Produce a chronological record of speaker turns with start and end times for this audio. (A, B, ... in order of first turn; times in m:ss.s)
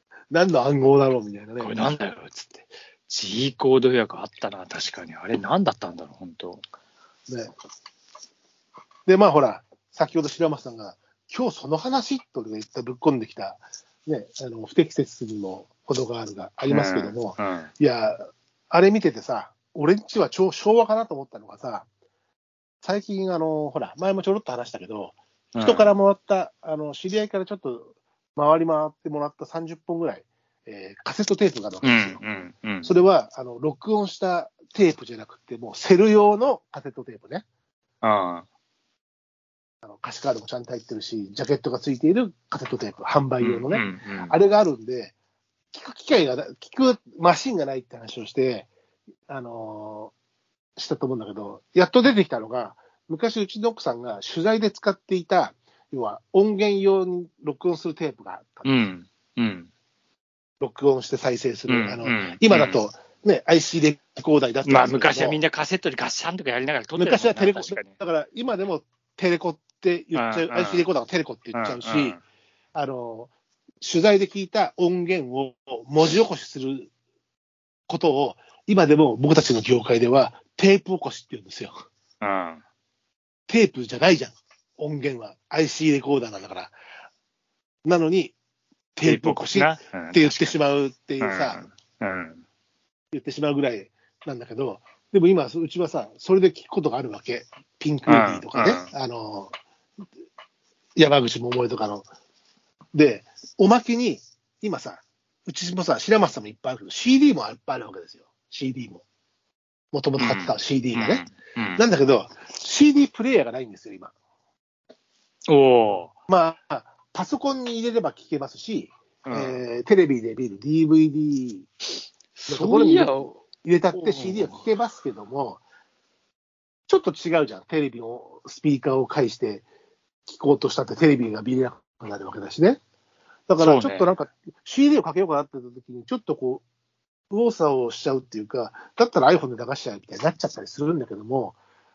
0:00.3-0:02.0 A
0:01.6-0:06.6 B
0:09.1-0:21.9 A
0:16.7-0:17.7 B
0:22.8-0:32.2 A
0:25.5-0:25.9 B
0:31.8-0:32.9 B
0:32.8-0:37.4 A
0:38.0-0:38.4 B
0:39.8-0:45.1 A
0:43.4-0:44.4 B
0:45.7-0:48.7 A
0:49.3-0:50.1 A
0:50.8-0:58.8 A
0:58.6-0:59.7 B
1:00.6-1:05.4 A
1:01.7-1:02.8 B
1:04.6-1:08.0 B
1:07.0-1:12.2 A
1:10.1-1:10.9 B
1:11.5-1:12.2 B
1:12.8-1:16.9 A
1:17.9-1:21.8 A
1:22.2-1:22.6 B
1:23.5-1:26.7 A
1:27.8-1:28.3 A
1:29.0-1:31.7 A
1:29.0-1:30.6 B
1:31.2-1:32.4 B
1:33.1-1:39.5 A
1:38.1-1:38.9 B
1:41.0-1:42.1 A
1:42.9-1:49.0 A
1:49.9-1:51.2 A
1:50.2-1:51.8 B
1:51.8-1:54.1 A
1:55.5-1:56.1 B
1:56.3-2:01.7 A
1:59.2-1:59.6 B
2:02.4-2:03.3 B
2:02.5-2:05.6 A
2:03.9-2:04.6 B
2:06.9-2:09.6 A
2:10.3-2:12.8 A
2:13.5-2:16.6 A
2:13.6-2:14.1 B
2:17.3-2:21.6 A